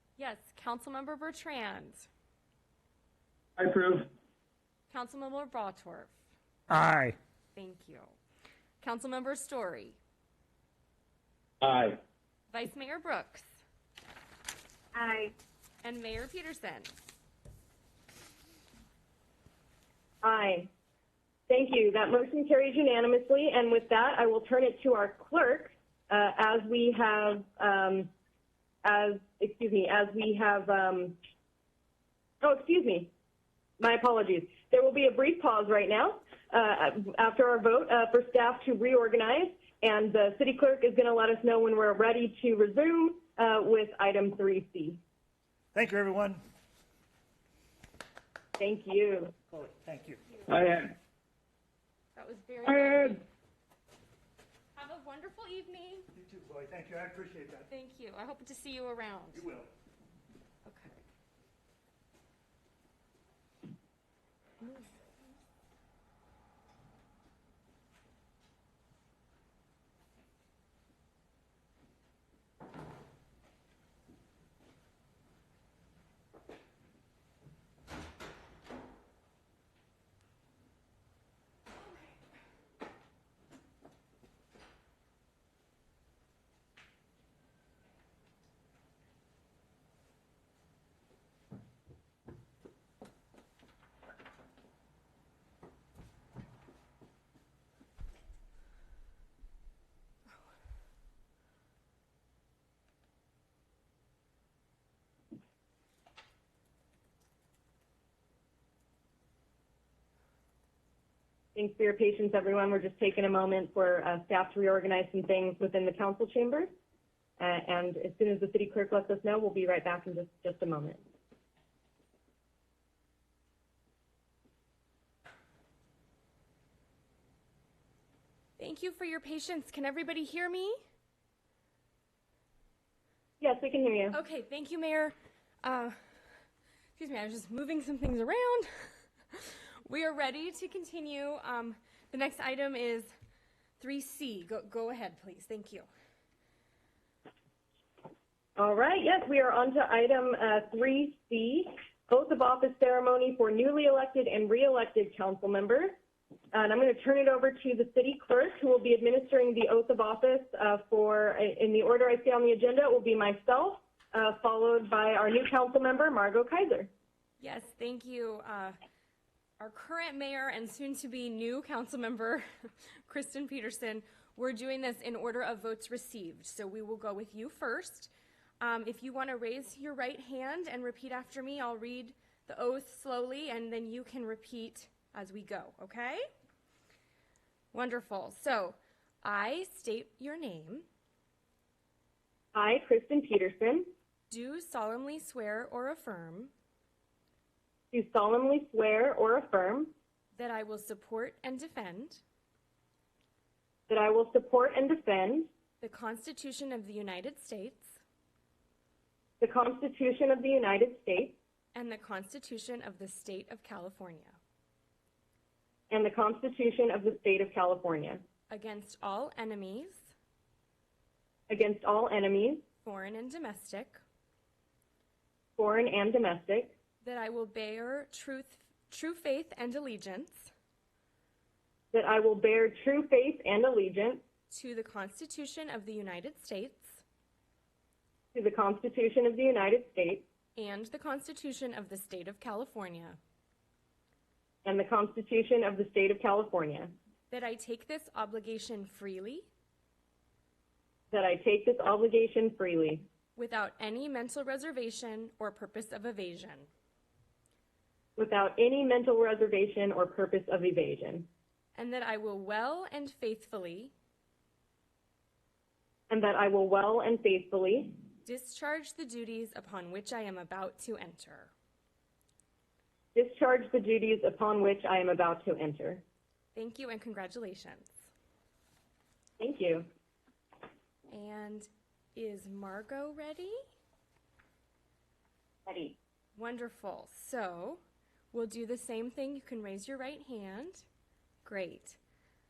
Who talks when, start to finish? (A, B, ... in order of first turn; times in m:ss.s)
0:00.2-0:02.1 A
0:03.6-0:04.1 B
0:04.9-0:06.1 A
0:06.7-0:07.2 C
0:07.5-0:08.1 A
0:08.8-0:10.0 A
0:11.6-0:12.0 B
0:12.5-0:13.4 A
0:14.9-0:15.3 D
0:15.8-0:16.9 A
0:20.2-0:20.7 D
0:21.5-0:28.1 D
0:28.8-0:31.2 D
0:32.4-0:33.1 D
0:33.8-0:45.0 D
0:45.7-0:46.4 C
0:48.6-0:49.3 D
0:49.5-0:50.2 C
0:50.2-0:50.5 A
0:50.5-0:50.9 B
0:52.2-0:53.2 A
0:52.6-0:53.2 B
0:54.7-0:56.1 A
0:56.1-0:57.7 C
0:57.7-0:59.4 A
0:59.3-0:59.7 C
1:00.6-1:01.0 A
1:04.6-1:04.9 A
1:51.5-1:56.7 D
1:57.4-2:01.0 D
2:08.6-2:10.8 A
2:13.4-2:14.2 D
2:14.1-2:16.0 A
2:17.0-2:18.7 A
2:19.3-2:23.1 A
2:23.8-2:25.9 A
2:28.6-2:36.0 D
2:36.5-2:46.9 D
2:47.4-2:48.7 A
2:49.6-2:52.4 A
2:53.1-3:06.2 A
3:07.7-3:10.8 A
3:12.5-3:13.9 D
3:14.3-3:16.5 A
3:17.9-3:19.9 D
3:20.3-3:22.2 A
3:23.9-3:25.5 D
3:25.8-3:27.9 A
3:29.4-3:31.4 D
3:31.7-3:34.4 A
3:35.9-3:38.2 D
3:38.5-3:40.1 A
3:41.5-3:42.6 D
3:42.8-3:44.0 A
3:45.6-3:46.7 D
3:47.0-3:50.5 A
3:51.9-3:54.2 D
3:54.5-3:57.0 A
3:58.3-4:00.2 D
4:00.6-4:03.2 A
4:04.6-4:06.9 D
4:07.3-4:09.5 A
4:11.1-4:13.0 D
4:13.4-4:16.7 A
4:18.2-4:21.3 D
4:21.7-4:23.9 A
4:26.1-4:28.0 D
4:28.2-4:31.5 A
4:33.1-4:36.0 D
4:36.5-4:37.9 A
4:39.4-4:39.9 D
4:41.1-4:43.6 A
4:45.6-4:45.9 D
4:46.3-4:47.8 A
4:48.3-4:50.8 A
4:51.4-4:52.0 A